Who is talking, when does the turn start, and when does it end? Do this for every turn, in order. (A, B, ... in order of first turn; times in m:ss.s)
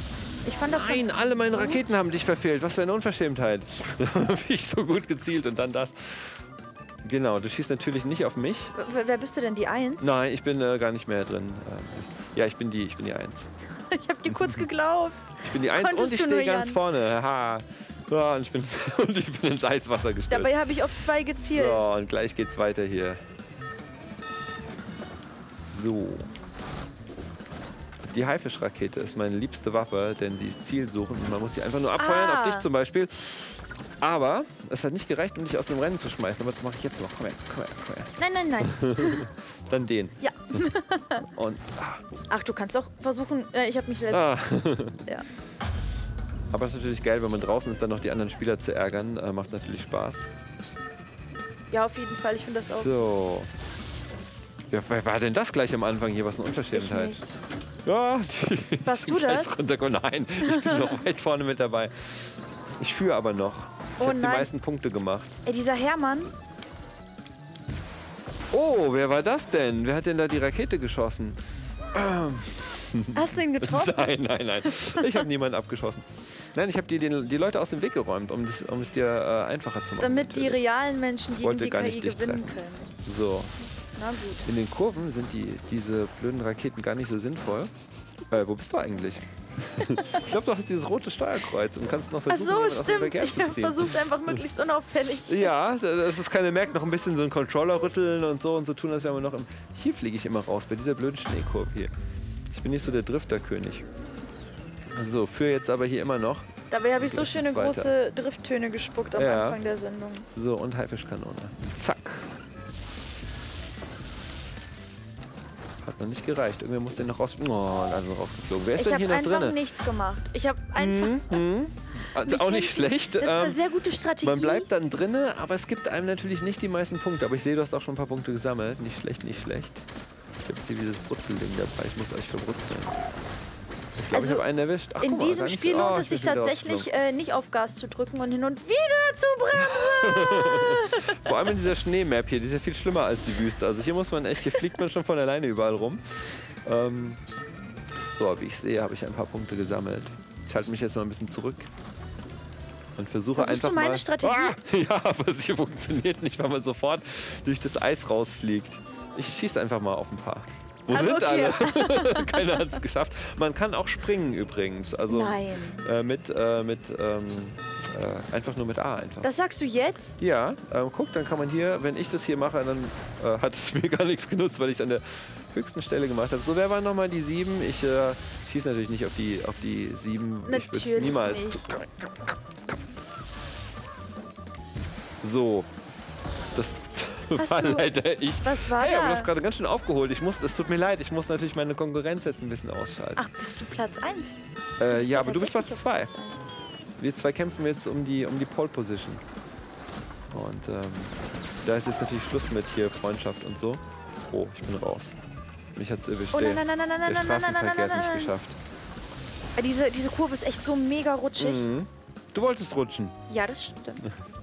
0:00.4-0:01.8 A
0:00.7-0:06.4 B
0:07.0-0:08.8 B
0:08.8-0:10.1 A
0:10.0-0:13.5 B
0:13.9-0:16.8 A
0:14.3-0:14.6 B
0:15.4-0:20.6 B
0:20.3-0:21.9 A
0:21.5-0:23.2 B
0:25.6-0:26.3 B
0:28.0-0:40.7 B
0:32.0-0:32.7 A
0:38.2-0:39.3 A
0:40.2-0:41.3 A
0:41.2-0:42.0 B
0:42.3-0:44.4 A
0:44.1-0:45.0 B
0:46.5-0:50.3 B
0:51.7-0:53.0 A
0:52.5-0:53.5 B
0:54.7-0:57.2 B
0:56.7-0:57.3 A
0:57.8-1:05.3 B
0:58.8-0:59.5 A
1:00.4-1:01.0 A
1:04.0-1:04.5 A
1:05.4-1:06.3 A
1:08.5-1:11.4 B
1:11.9-1:20.6 B
1:13.1-1:15.2 A
1:20.0-1:22.9 A
1:21.4-1:23.5 B
1:24.0-1:24.5 A
1:24.5-1:27.7 B
1:28.3-1:34.4 B
1:29.9-1:30.2 A
1:32.3-1:35.5 A
1:35.3-1:41.9 B
1:42.5-1:43.9 B
1:44.9-1:47.9 B
1:46.7-1:50.3 A
1:49.2-1:49.6 B
1:50.3-1:52.3 B
1:55.8-1:59.6 B
1:58.8-2:01.4 A
2:00.8-2:03.6 B
2:02.1-2:04.7 A
2:04.2-2:09.8 B
2:10.4-2:13.0 B
2:14.0-2:16.9 B
2:14.1-2:14.5 A
2:15.0-2:21.4 A
2:19.7-2:27.2 B
2:27.9-2:31.7 B
2:33.0-2:49.3 B
2:33.4-2:34.6 A
2:40.9-2:42.7 A
2:45.1-2:45.8 A
2:49.2-2:50.2 A
2:50.2-3:02.8 B
3:00.4-3:01.6 A
3:05.2-3:05.7 B
3:06.5-3:13.2 B
3:07.4-3:09.3 A
3:13.2-3:14.4 A
3:14.8-3:16.1 B
3:14.9-3:16.4 A
3:17.0-3:19.2 B
3:20.3-3:25.2 B
3:25.8-3:28.6 B
3:26.3-3:28.3 A
3:29.6-3:31.7 A
3:31.4-3:33.2 B
3:33.3-3:34.0 A